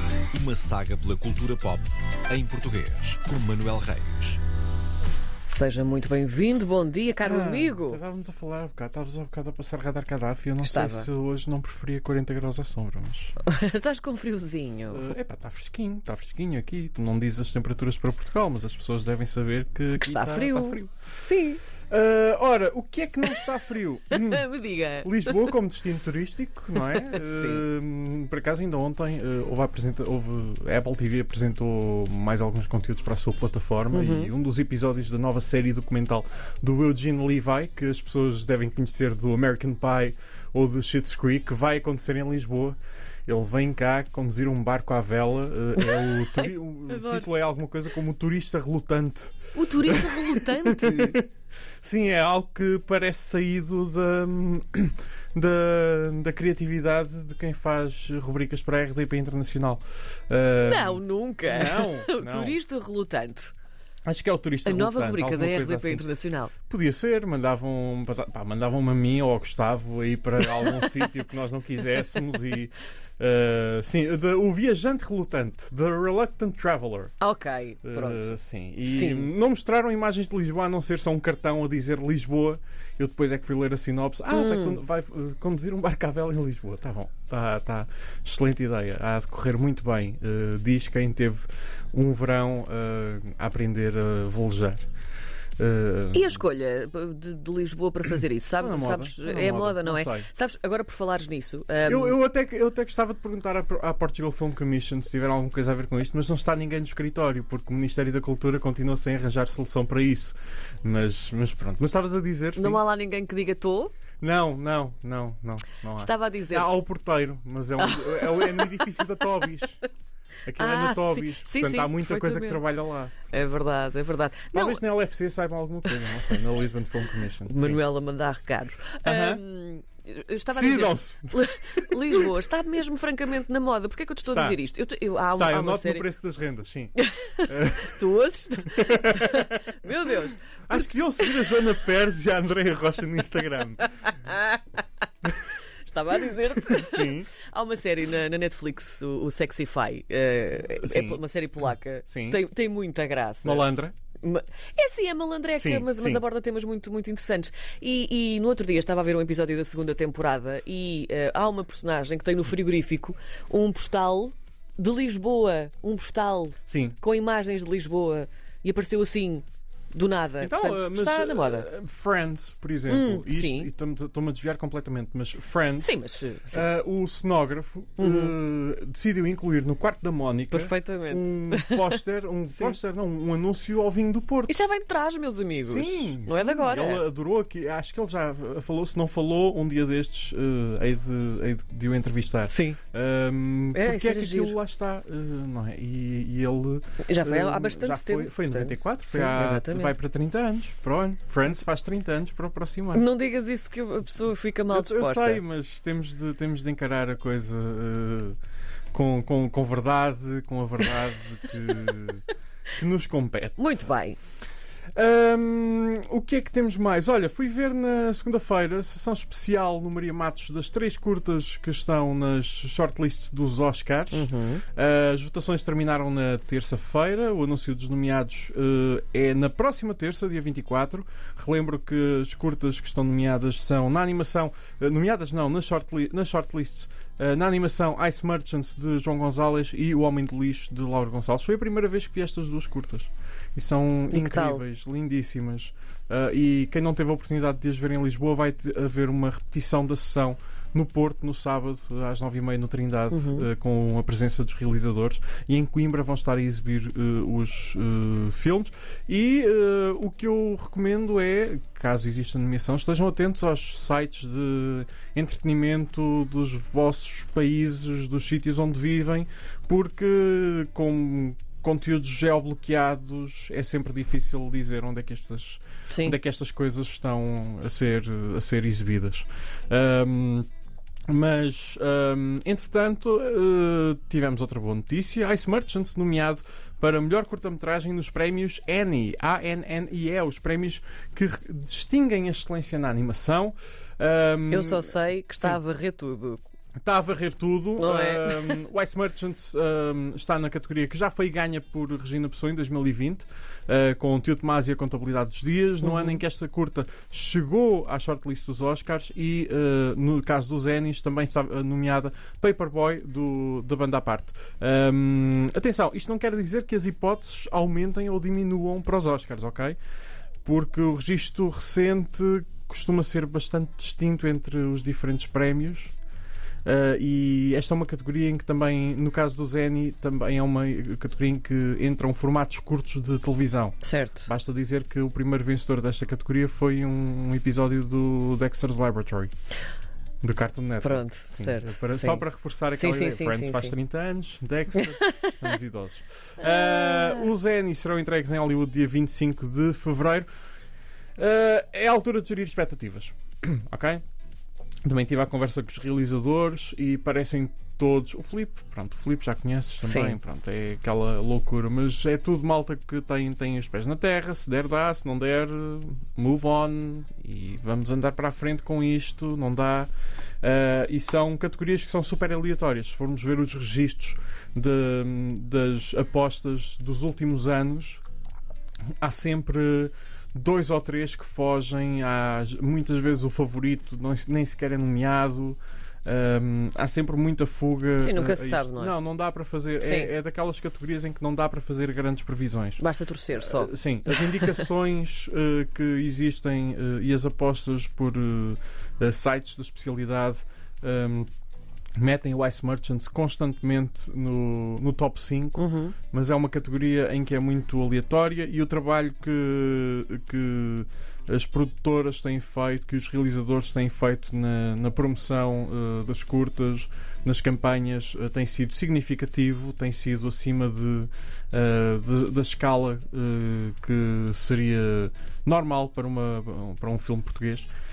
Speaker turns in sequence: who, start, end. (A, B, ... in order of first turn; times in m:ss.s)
0:00.3-0:04.4 A
0:05.5-0:08.0 B
0:07.2-0:13.4 C
0:10.6-0:11.1 B
0:13.4-0:15.1 B
0:14.9-0:20.9 C
0:20.0-0:21.6 B
0:21.9-0:51.3 C
0:24.1-0:25.4 B
0:26.8-0:27.6 B
0:33.9-0:34.3 B
0:45.8-0:47.3 B
0:49.5-0:51.2 B
0:51.8-1:02.6 C
1:00.6-1:03.5 B
1:04.0-1:06.1 C
1:04.6-1:06.5 B
1:06.7-1:17.1 C
1:17.2-1:19.3 B
1:17.8-1:34.9 C
1:24.3-1:24.8 B
1:35.6-1:36.4 C
1:36.1-1:42.2 B
1:38.6-1:40.3 C
1:41.8-1:52.8 C
1:52.5-1:53.9 B
1:54.2-1:59.8 C
1:55.9-1:56.8 B
1:57.8-1:59.5 B
2:00.5-2:03.2 C
2:00.5-2:02.6 B
2:03.3-2:04.8 B
2:04.5-2:07.8 C
2:05.8-2:06.4 B
2:07.4-2:16.1 B
2:09.0-2:09.4 C
2:10.5-2:12.4 C
2:14.3-2:14.6 C
2:15.3-2:16.9 C
2:16.9-2:21.6 B
2:17.5-2:18.1 C
2:18.7-2:20.1 C
2:20.7-2:23.8 C
2:24.0-2:24.8 B
2:25.8-2:33.7 B
2:26.6-2:27.3 C
2:30.8-2:31.2 C
2:32.0-2:32.4 C
2:33.4-2:34.0 C
2:34.2-2:51.7 B
2:35.5-2:36.2 C
2:46.7-2:47.0 C
2:50.4-3:04.6 C
2:52.9-2:53.7 B
2:55.8-2:56.7 B
2:58.0-2:58.3 B
3:00.5-3:02.0 B
3:04.5-3:07.0 B
3:05.6-3:23.0 C
3:12.5-3:12.8 B
3:13.7-3:14.6 B
3:17.0-3:19.9 B
3:22.9-3:25.4 B
3:24.7-3:28.4 C
3:28.9-3:32.2 C
3:32.8-3:33.9 C
3:33.6-3:34.2 B
3:34.9-4:40.5 C
3:44.1-3:44.6 B
4:04.1-4:04.6 B
4:13.1-4:13.5 B
4:35.9-4:36.2 B
4:41.1-4:55.6 C
4:54.5-4:56.4 B
4:56.8-5:19.8 C
4:57.8-4:58.6 B
5:05.8-5:06.2 B
5:20.4-5:25.9 C
5:26.6-5:39.3 C
5:33.8-5:34.3 B
5:40.2-5:50.3 C
5:40.8-5:43.8 B
5:44.8-5:45.3 B
5:46.4-5:47.3 B
5:51.2-5:54.0 C
5:54.8-6:09.9 C
5:59.8-6:00.2 B
6:10.4-6:18.0 C
6:19.0-6:41.3 C
6:28.0-6:28.9 B
6:29.8-6:30.1 B
6:32.8-6:34.6 B
6:42.0-7:07.7 C
6:45.6-6:45.9 B